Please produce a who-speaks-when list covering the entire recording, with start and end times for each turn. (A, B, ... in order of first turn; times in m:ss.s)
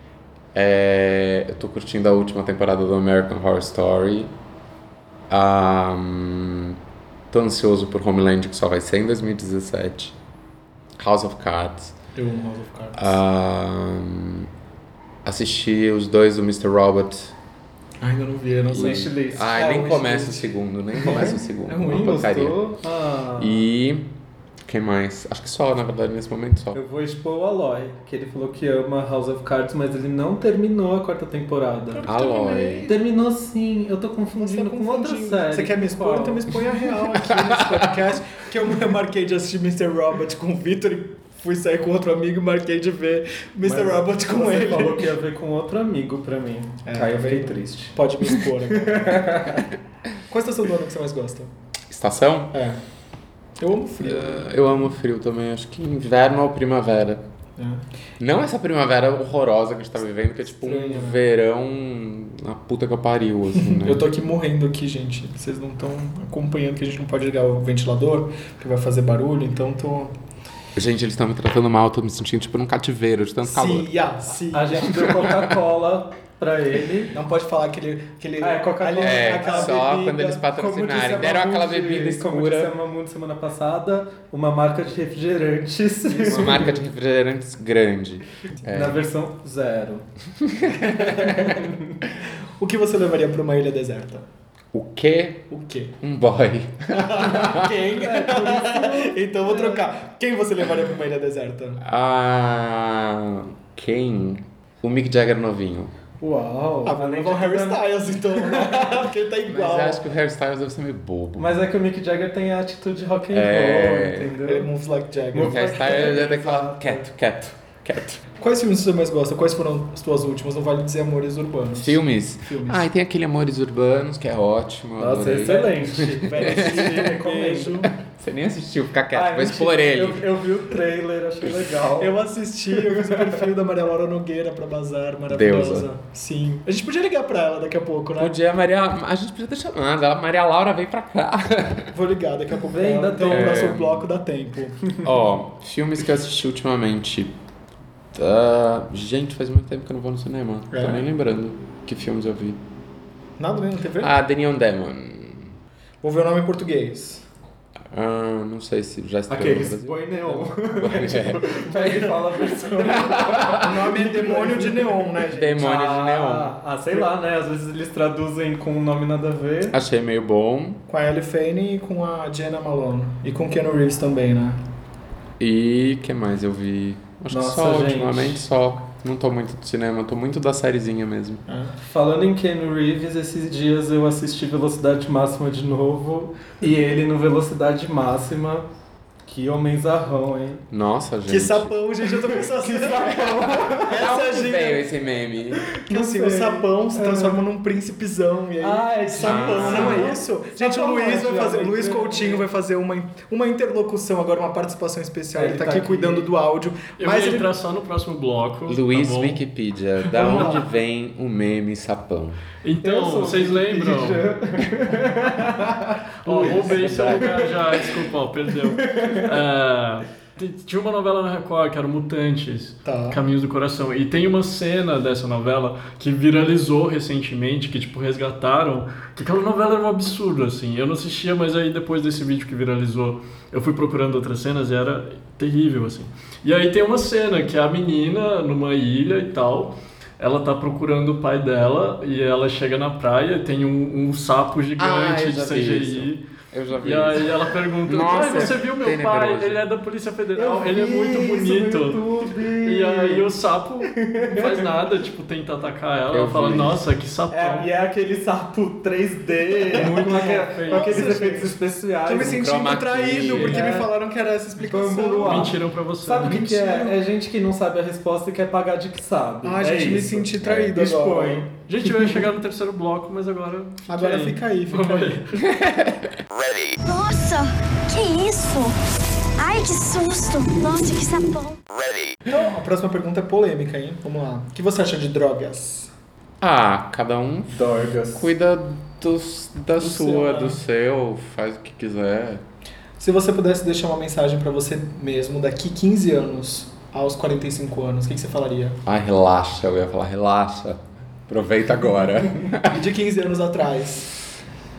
0:00.5-0:04.3 A
0:05.3-0:06.8 A
0:07.3-0:10.1 A
0:11.0-0:11.9 A
0:12.2-0:13.2 B
0:13.0-0:14.5 A
0:15.2-0:17.3 A
0:18.0-0:19.1 B
0:18.7-0:22.6 A
0:18.7-0:20.4 C
0:21.0-0:23.6 C
0:21.0-0:22.2 B
0:23.4-0:24.1 A
0:24.7-0:26.8 A
0:26.7-0:32.0 C
0:31.9-0:32.9 B
0:32.0-0:32.9 A
0:32.8-0:36.5 C
0:34.4-0:45.1 B
0:37.5-0:37.7 A
0:43.6-0:48.0 C
0:46.8-0:49.6 B
0:48.8-0:49.7 C
0:50.3-0:51.5 B
0:51.9-0:52.5 A
0:52.5-0:52.8 B
0:53.6-0:54.4 B
0:54.0-0:57.2 A
0:57.6-0:57.8 B
0:58.2-1:04.0 A
1:00.5-1:01.2 B
1:03.6-1:10.1 B
1:10.8-1:13.9 A
1:13.4-1:15.2 B
1:14.5-1:17.1 C
1:17.1-1:20.5 B
1:18.4-1:19.9 C
1:19.0-1:22.7 A
1:20.5-1:26.8 C
1:26.1-1:26.7 B
1:26.2-1:29.0 A
1:28.6-1:30.0 C
1:30.4-1:31.6 A
1:30.8-1:31.5 B
1:31.3-1:32.0 C
1:32.3-1:34.2 B
1:34.7-1:35.5 A
1:35.5-1:36.0 B
1:36.0-1:37.7 A
1:36.9-1:41.8 B
1:37.9-1:39.9 C
1:41.8-1:45.9 A
1:46.2-1:48.8 C
1:46.8-1:50.0 B
1:49.5-1:51.7 A
1:51.4-1:54.7 C
1:53.3-1:54.3 A
1:54.4-1:56.4 B
1:55.3-1:57.0 C
1:55.4-1:58.2 A
1:58.4-2:02.8 B
2:01.7-2:07.1 A
2:05.0-2:07.9 C
2:06.3-2:07.9 B
2:08.0-2:10.3 A
2:09.1-2:12.2 C
2:12.0-2:18.4 B
2:12.9-2:13.2 C
2:15.3-2:15.9 A
2:18.2-2:21.9 A
2:21.9-2:24.8 B
2:22.7-2:23.7 C
2:23.3-2:24.1 A
2:25.0-2:27.3 A
2:28.1-2:32.6 A
2:30.7-2:31.1 B
2:33.4-2:34.1 B
2:34.0-2:35.5 A
2:36.0-2:37.2 B
2:37.9-2:43.7 A
2:39.3-2:45.0 C
2:43.3-2:45.8 B
2:45.3-2:46.5 A
2:45.6-2:49.8 C
2:49.7-2:50.8 A
2:50.9-2:54.6 B
2:55.4-3:01.4 A
2:57.3-2:58.4 C
3:01.5-3:01.7 B
3:01.8-3:08.7 C
3:09.2-3:10.6 C
3:10.7-3:11.7 A
3:11.3-3:14.9 B
3:12.4-3:13.9 C
3:13.4-3:15.7 A
3:15.7-3:17.4 C
3:15.8-3:27.5 B
3:18.6-3:22.4 C
3:19.2-3:20.1 A
3:25.3-3:26.3 C
3:27.0-3:29.4 D
3:28.7-3:32.4 A
3:30.2-3:30.6 D
3:30.2-3:30.5 B
3:32.6-3:34.3 D
3:32.8-3:37.9 C
3:36.2-4:06.2 D
3:36.3-3:37.1 B
3:38.7-3:39.3 C
3:42.8-3:43.2 B
4:04.8-4:09.6 A
4:06.8-4:12.0 D
4:10.3-4:13.3 C
4:12.6-4:17.7 D
4:13.9-4:14.8 C
4:16.1-4:16.8 A
4:17.3-4:22.4 C
4:19.7-4:21.0 D
4:20.0-4:25.6 B
4:22.2-4:23.7 A
4:23.4-4:23.9 C
4:24.6-4:32.1 C
4:25.2-4:26.4 D
4:26.2-4:27.0 B
4:29.4-4:31.5 B
4:31.7-4:35.4 D
4:33.9-4:35.4 B
4:35.6-4:36.0 A
4:36.8-4:38.8 E
4:39.4-4:41.6 E
4:42.2-4:45.9 B
4:46.4-4:47.6 A
4:47.5-4:48.3 C
4:48.1-4:52.4 A
4:49.8-4:50.6 B
4:53.0-4:58.8 B
4:58.8-5:02.8 A
5:02.6-5:04.1 B